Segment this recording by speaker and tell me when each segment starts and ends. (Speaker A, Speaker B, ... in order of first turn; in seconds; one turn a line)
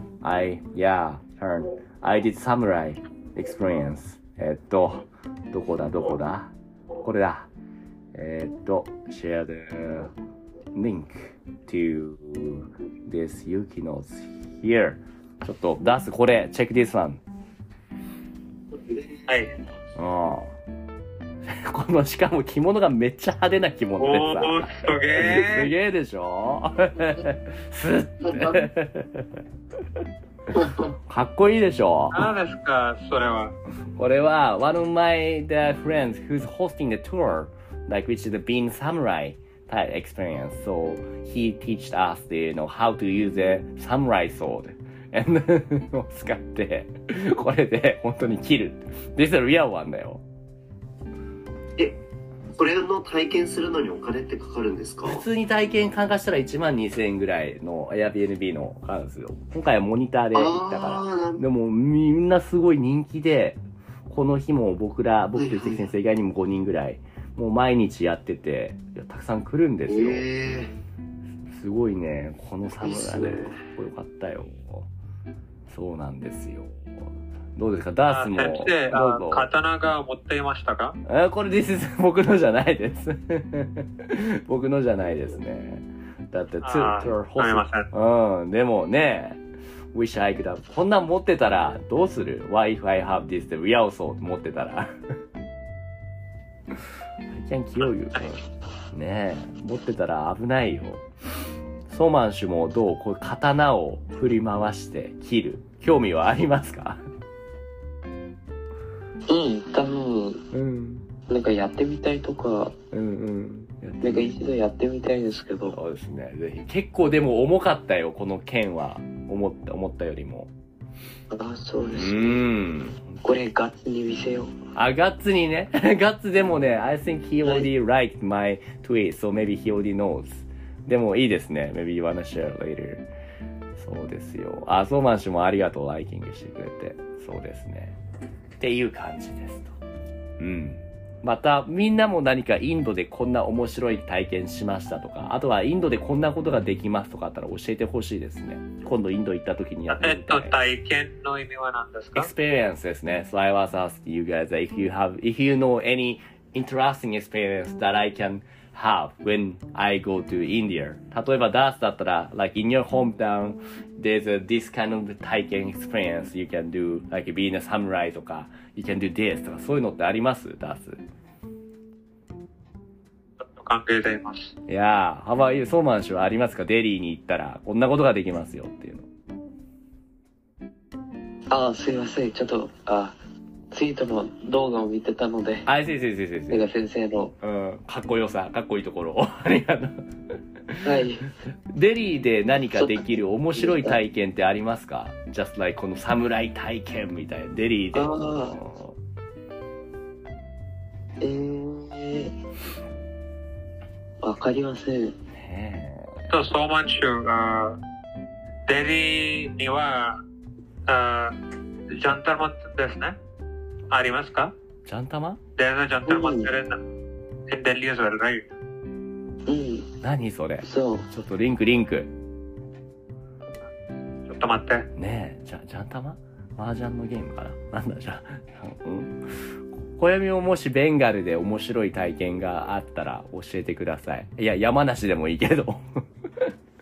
Speaker A: 0.2-7.5
Speaker A: 8.1-10.1
Speaker A: 10.7-17.2
Speaker B: 18.8-19.2
Speaker A: 19.9-20.6
Speaker A: 21.4-29.4
Speaker C: 24.0-25.7
Speaker A: 30.7-32.3
Speaker C: 32.1-33.5
Speaker A: 34.0-50.2
Speaker B: 52.5-55.2
Speaker A: 55.0-70.2
Speaker B: 60.3-61.4
Speaker B: 65.4-65.8
Speaker B: 69.9-70.7
Speaker A: 71.5-74.9
Speaker B: 72.8-73.6
Speaker A: 75.7-79.5
Speaker C: 78.1-81.0
Speaker A: 81.0-89.4
Speaker C: 86.6-87.9
Speaker A: 89.9-95.0
Speaker A: 97.3-101.0
Speaker A: 101.9-107.0
Speaker D: 109.3-110.4
Speaker A: 110.5-111.1
Speaker D: 111.3-112.7
Speaker A: 112.9-114.3
Speaker D: 114.0-115.8
Speaker A: 115.7-120.5
Speaker D: 121.3-122.4
Speaker A: 121.9-123.2
Speaker D: 123.2-124.5
Speaker A: 124.7-133.1
Speaker A: 133.8-138.0
Speaker A: 138.6-139.8
Speaker A: 140.4-150.6
Speaker C: 149.9-152.3
Speaker A: 152.1-171.0
Speaker C: 173.5-174.5
Speaker A: 174.7-179.1
Speaker D: 181.5-183.2
Speaker D: 183.7-185.7
Speaker A: 185.7-186.7
Speaker D: 186.5-187.3
Speaker A: 187.4-190.0
Speaker A: 190.7-191.0
Speaker D: 190.8-191.3
Speaker A: 191.7-199.0
Speaker D: 192.8-194.0
Speaker D: 197.9-198.6
Speaker D: 201.2-202.3
Speaker D: 204.2-205.1
Speaker A: 205.3-206.3
Speaker C: 206.3-207.8
Speaker C: 208.7-210.2
Speaker C: 210.9-211.4
Speaker C: 211.9-213.2
Speaker C: 213.9-214.5
Speaker A: 214.8-215.4
Speaker C: 215.6-216.8
Speaker D: 216.1-216.5
Speaker C: 217.5-218.4
Speaker D: 219.5-219.9
Speaker A: 220.0-222.1
Speaker D: 220.6-221.1
Speaker C: 224.3-224.8
Speaker A: 224.9-229.2
Speaker A: 229.9-236.5